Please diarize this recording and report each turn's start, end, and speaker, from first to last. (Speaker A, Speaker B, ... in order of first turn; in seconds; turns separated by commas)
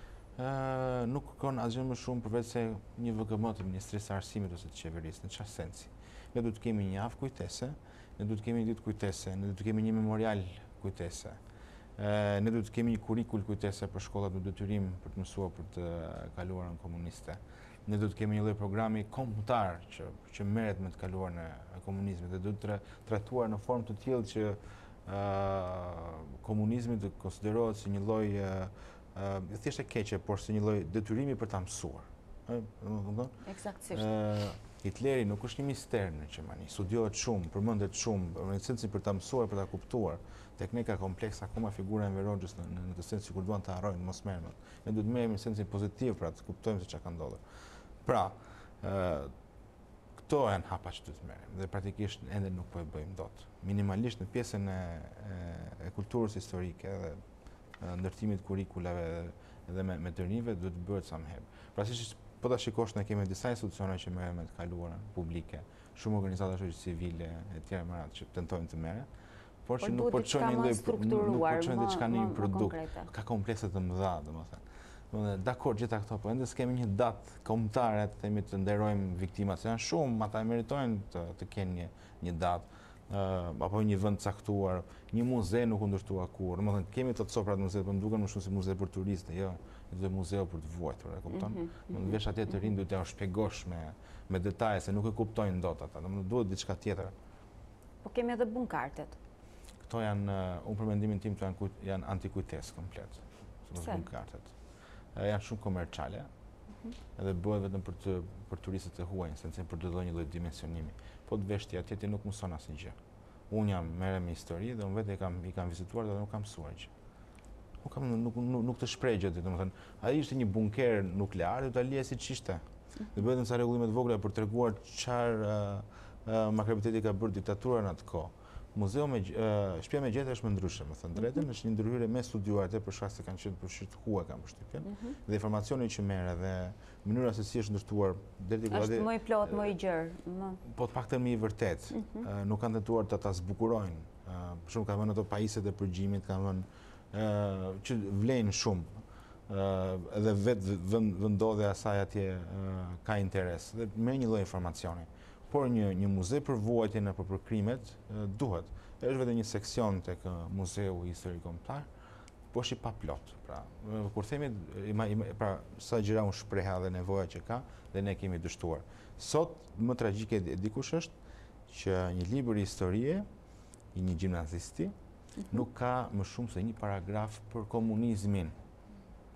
Speaker A: 0.3-11.4, Speaker A: 12.0-49.3, Speaker B: 33.4-34.1, Speaker A: 50.2-57.2, Speaker A: 57.8-69.1, Speaker A: 69.6-97.1, Speaker B: 69.8-73.1, Speaker B: 91.3-92.1, Speaker B: 98.0-99.2, Speaker A: 99.8-104.5, Speaker A: 105.1-106.3, Speaker A: 107.2-113.0, Speaker A: 113.5-116.9, Speaker A: 117.8-139.7, Speaker B: 134.8-135.2, Speaker B: 138.7-140.6, Speaker A: 140.6-161.9, Speaker B: 141.9-142.2, Speaker A: 162.5-171.1, Speaker A: 171.7-173.2, Speaker A: 173.9-174.9, Speaker A: 175.5-178.6